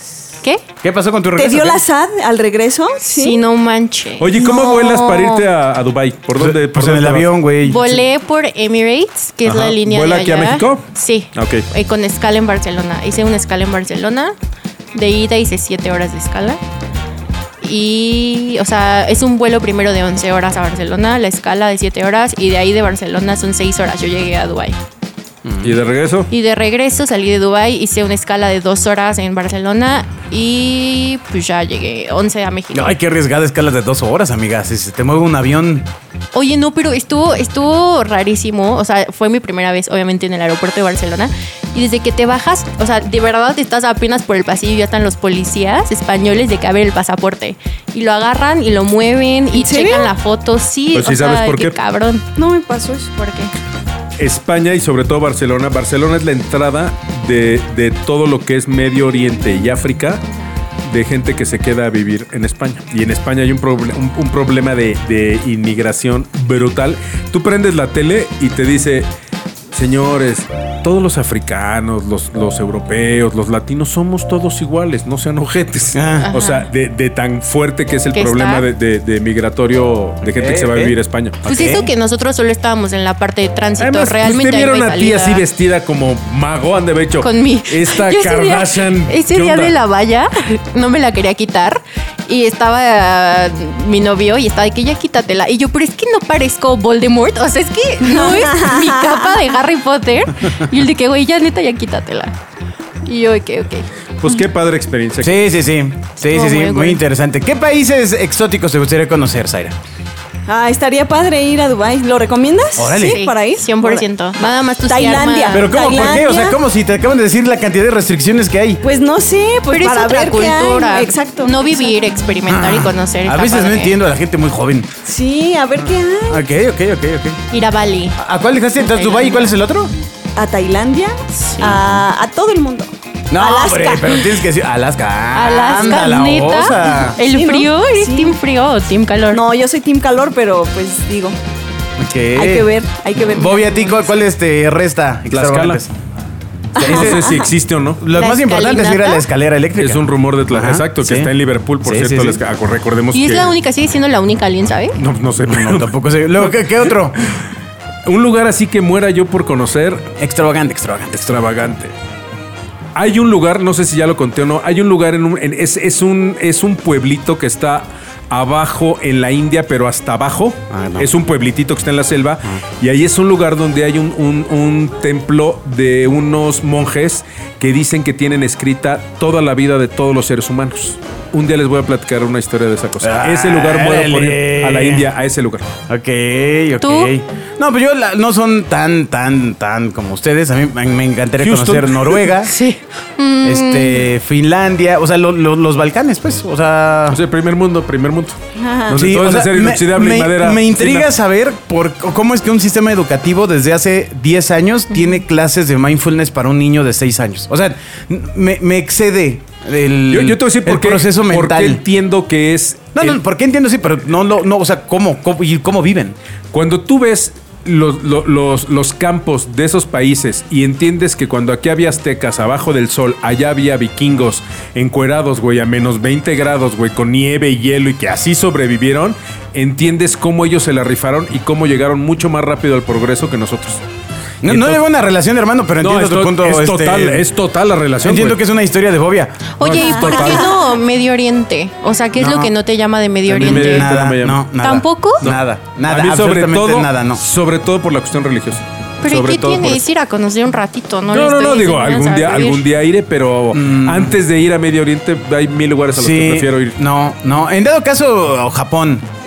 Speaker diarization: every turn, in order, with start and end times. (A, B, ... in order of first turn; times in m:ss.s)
0:00.8-0:01.8 A
0:01.3-0:03.4 B
0:03.0-0:05.4 C
0:04.2-0:07.3 D
0:06.4-0:08.0 A
0:07.6-0:14.3 C
0:09.4-0:11.6 D
0:14.9-0:16.6 C
0:17.6-0:24.8 C
0:25.4-0:25.7 A
0:25.6-0:26.3 D
0:26.3-0:33.0 C
0:32.7-0:35.9 A
0:36.3-0:52.3 C
0:49.5-0:50.1 B
0:50.9-0:51.8 D
0:52.4-0:53.1 B
0:53.2-0:53.5 C
0:54.2-1:00.2 D
1:00.9-1:09.1 D
1:09.7-1:21.4 D
1:15.9-1:16.3 A
1:16.2-1:16.7 C
1:18.1-1:18.6 C
1:20.2-1:21.9 A
1:21.4-1:25.4 C
1:23.8-1:29.7 D
1:27.2-1:42.3 C
1:38.1-1:39.1 B
1:43.0-1:43.9 C
1:44.2-1:45.4 D
1:45.2-1:49.8 A
1:46.2-1:47.0 C
1:50.5-1:56.6 B
1:52.8-1:53.2 A
1:52.9-1:56.2 C
1:55.5-1:58.8 A
1:58.8-2:02.0 B
1:59.7-2:03.9 C
2:02.5-2:04.9 A
2:05.0-2:06.4 B
2:06.3-2:07.4 A
2:07.5-2:08.2 C
2:08.2-2:09.9 A
2:08.8-2:09.5 C
2:10.4-2:14.4 B
2:11.4-2:11.7 C
2:11.6-2:12.0 A
2:13.3-2:17.2 A
2:15.3-2:19.4 C
2:17.2-2:18.4 B
2:19.3-2:21.4 B
2:22.0-2:25.9 A
2:22.3-2:24.0 B
2:25.3-2:25.8 D
2:26.8-2:28.0 D
2:26.8-2:27.5 B
2:26.8-2:27.4 A
2:28.0-2:31.3 A
2:28.1-2:29.2 C
2:29.8-2:33.5 D
2:31.8-2:32.4 A
2:33.1-2:35.0 C
2:35.0-2:37.5 D
2:35.4-2:37.2 A
2:38.0-2:40.1 D
2:40.1-2:41.3 A
2:41.1-2:41.9 D
2:42.9-3:05.6 D
2:50.7-2:51.1 A
3:03.0-3:05.1 A
3:05.9-3:12.5 A
3:06.8-3:07.1 C
3:11.4-3:12.3 D
3:12.4-3:14.0 C
3:13.4-3:17.2 A
3:17.1-3:18.4 D
3:18.6-3:19.0 B
3:18.9-3:21.1 D
3:18.9-3:31.8 A
3:30.1-3:33.2 D
3:33.0-3:36.2 A
3:36.5-3:53.8 D
3:54.4-3:57.3 A
3:54.4-3:54.8 D
3:55.8-3:58.4 D
3:58.0-3:59.5 A
3:59.6-4:00.5 D
3:59.6-4:03.9 C
3:59.9-4:00.4 B
4:02.2-4:02.5 A
4:03.3-4:04.4 D
4:03.3-4:07.2 A
4:04.6-4:05.2 C
4:05.2-4:09.8 D
4:09.0-4:12.6 C
4:11.1-4:16.8 D
4:13.5-4:14.2 A
4:15.9-4:19.0 A